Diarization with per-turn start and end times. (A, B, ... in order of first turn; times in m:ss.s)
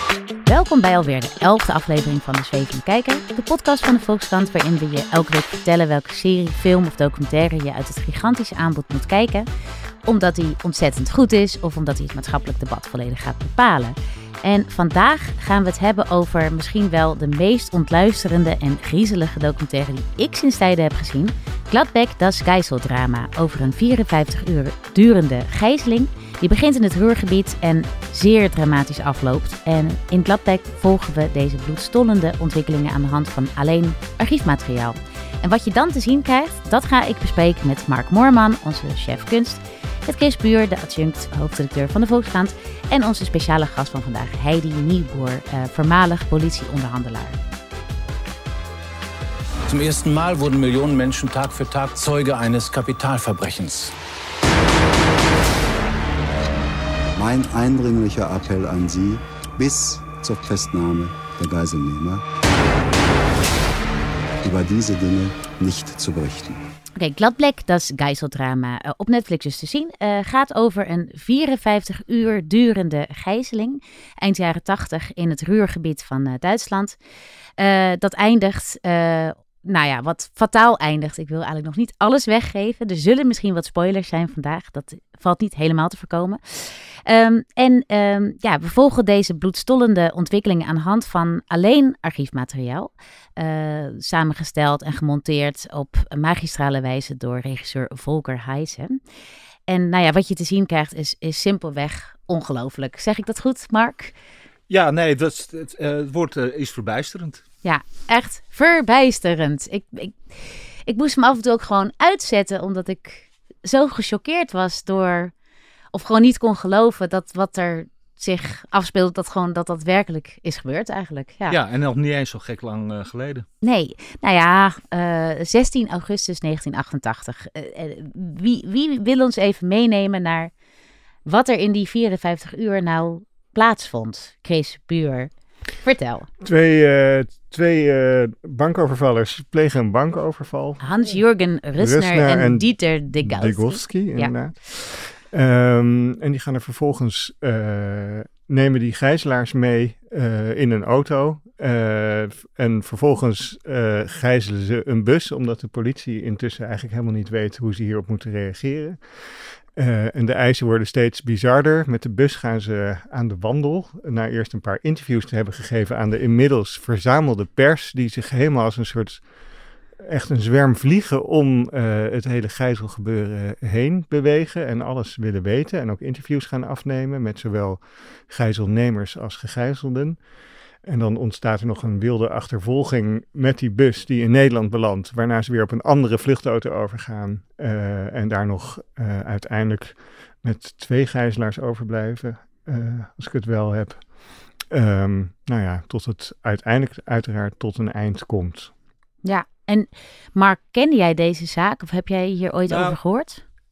0:00.5-0:09.5 A
0:10.0-0:47.4 A
0:49.7-0:53.9 B
0:57.2-1:02.2 C
1:04.4-1:06.6 C
1:07.0-1:17.0 A
1:17.6-1:39.0 A
1:39.7-1:44.1 A
1:44.7-1:47.4 D
1:47.6-1:55.3 A
1:55.9-2:01.6 A
2:01.5-2:03.5 D
2:03.6-2:10.5 A
2:11.3-2:16.3 A
2:16.4-2:20.8 E
2:20.8-2:24.3 A
2:21.8-2:49.2 E
2:50.0-3:00.2 E
3:00.8-3:14.0 E
3:14.7-3:18.7 E
3:19.2-3:23.4 A
3:22.7-3:23.0 D